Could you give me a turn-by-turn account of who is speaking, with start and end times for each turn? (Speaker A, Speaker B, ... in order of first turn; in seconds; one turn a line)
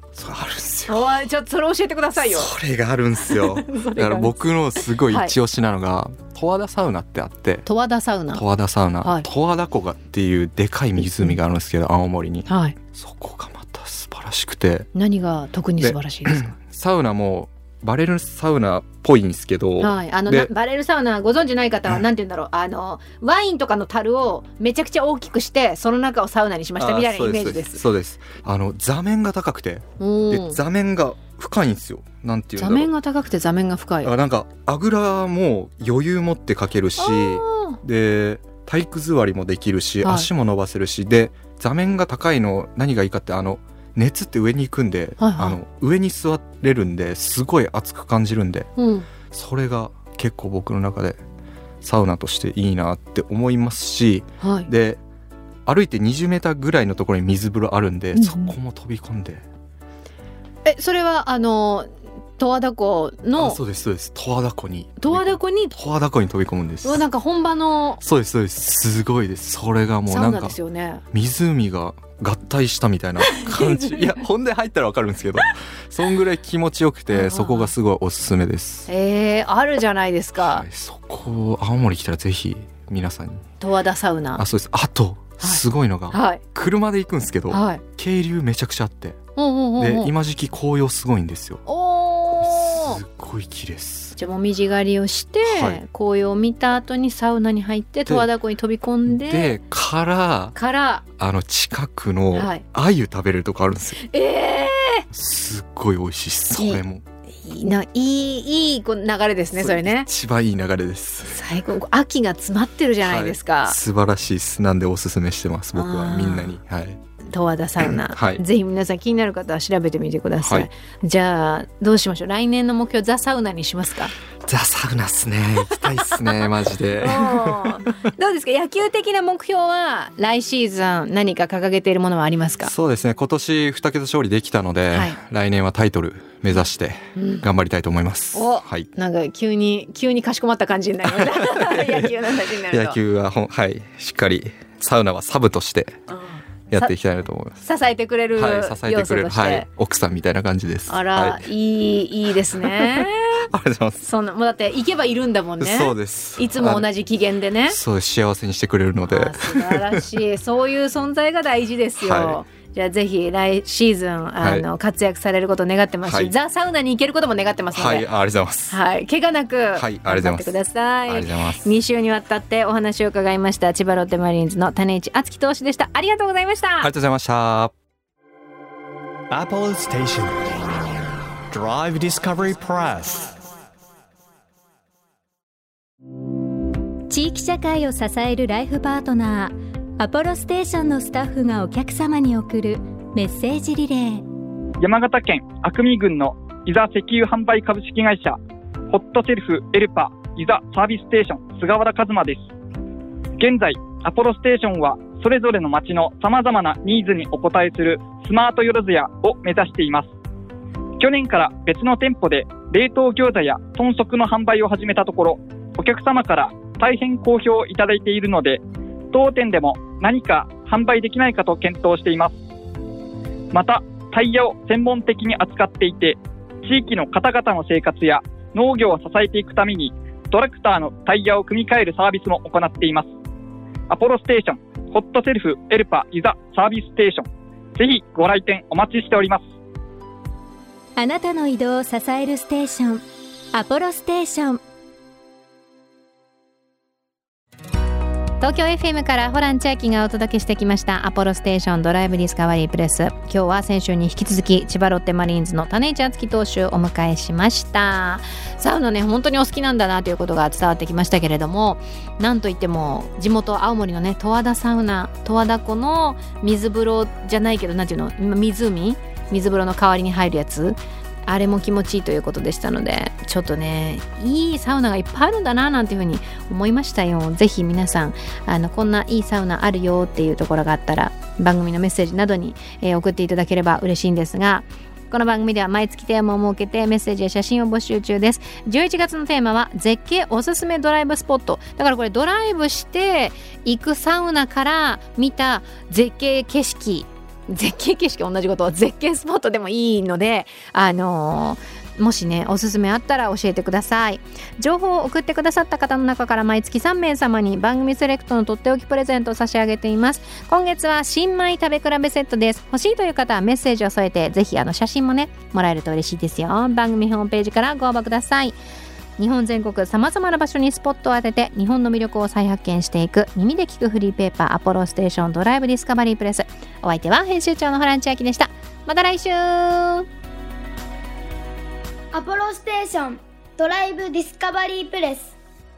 Speaker A: 0.1-1.1
Speaker B: 0.9-2.5
Speaker A: 2.2-7.7
Speaker B: 3.2-4.3
Speaker B: 5.1-5.3
Speaker B: 7.7-8.4
Speaker A: 8.3-14.9
Speaker B: 12.5-12.8
Speaker B: 14.9-16.5
Speaker A: 15.8-20.5
Speaker B: 19.8-27.8
Speaker A: 26.8-32.9
Speaker B: 30.0-30.6
Speaker B: 32.6-34.1
Speaker A: 34.0-48.7
Speaker B: 37.0-37.8
Speaker B: 40.0-40.3
Speaker B: 45.2-45.6
Speaker B: 48.8-49.1
Speaker A: 49.3-51.2
Speaker A: 51.8-55.0
Speaker B: 54.4-54.7
Speaker A: 55.7-59.4
Speaker B: 58.1-58.5
Speaker B: 60.6-63.6
Speaker A: 63.4-67.0
Speaker B: 65.0-65.8
Speaker B: 66.8-68.0
Speaker A: 68.0-70.6
Speaker B: 70.1-71.0
Speaker A: 71.1-78.9
Speaker B: 73.3-74.1
Speaker B: 77.1-77.7
Speaker B: 78.9-80.7
Speaker A: 80.4-83.5
Speaker B: 83.6-84.4
Speaker A: 84.4-89.2
Speaker B: 85.4-86.4
Speaker B: 87.5-87.8
Speaker B: 89.4-90.1
Speaker A: 89.8-91.6
Speaker B: 91.7-93.0
Speaker A: 92.4-94.2
Speaker B: 94.2-99.6
Speaker A: 95.5-95.8
Speaker A: 99.1-100.6
Speaker B: 100.5-101.0
Speaker A: 101.2-104.0
Speaker B: 102.3-102.6
Speaker B: 104.1-105.1
Speaker A: 105.1-107.0
Speaker B: 106.6-106.8
Speaker B: 107.4-110.1
Speaker A: 109.5-111.4
Speaker B: 111.3-113.8
Speaker A: 113.0-117.0
Speaker B: 115.7-116.6
Speaker B: 117.3-124.1
Speaker A: 117.8-118.4
Speaker A: 120.4-120.7
Speaker A: 124.5-127.9
Speaker B: 126.1-126.5
Speaker B: 127.0-132.7
Speaker A: 132.6-138.9
Speaker B: 134.9-135.2
Speaker B: 137.2-137.5
Speaker B: 138.3-143.0
Speaker A: 141.1-142.1
Speaker A: 142.7-146.0
Speaker B: 146.1-146.9
Speaker A: 146.7-147.6
Speaker B: 147.6-149.7
Speaker A: 148.3-151.4
Speaker B: 150.9-153.4
Speaker A: 152.6-154.0
Speaker B: 154.0-157.8
Speaker A: 155.6-156.9
Speaker A: 157.7-160.0
Speaker B: 159.1-168.1
Speaker A: 162.0-162.4
Speaker A: 164.4-164.7
Speaker A: 166.1-166.3
Speaker A: 167.7-168.8
Speaker B: 168.7-176.9
Speaker A: 169.8-170.5
Speaker A: 171.1-171.7
Speaker A: 176.8-177.7
Speaker C: 179.3-180.6
Speaker C: 181.5-183.4
Speaker D: 187.1-194.2
Speaker E: 194.8-198.4
Speaker E: 198.9-202.4
Speaker E: 203.4-210.1
Speaker E: 211.0-218.6
Speaker E: 219.1-222.3
Speaker E: 223.5-233.1
Speaker E: 233.9-239.4
Speaker D: 241.0-244.6
Speaker B: 248.4-318.6
Speaker B: 319.2-330.1
Speaker F: 332.1-335.3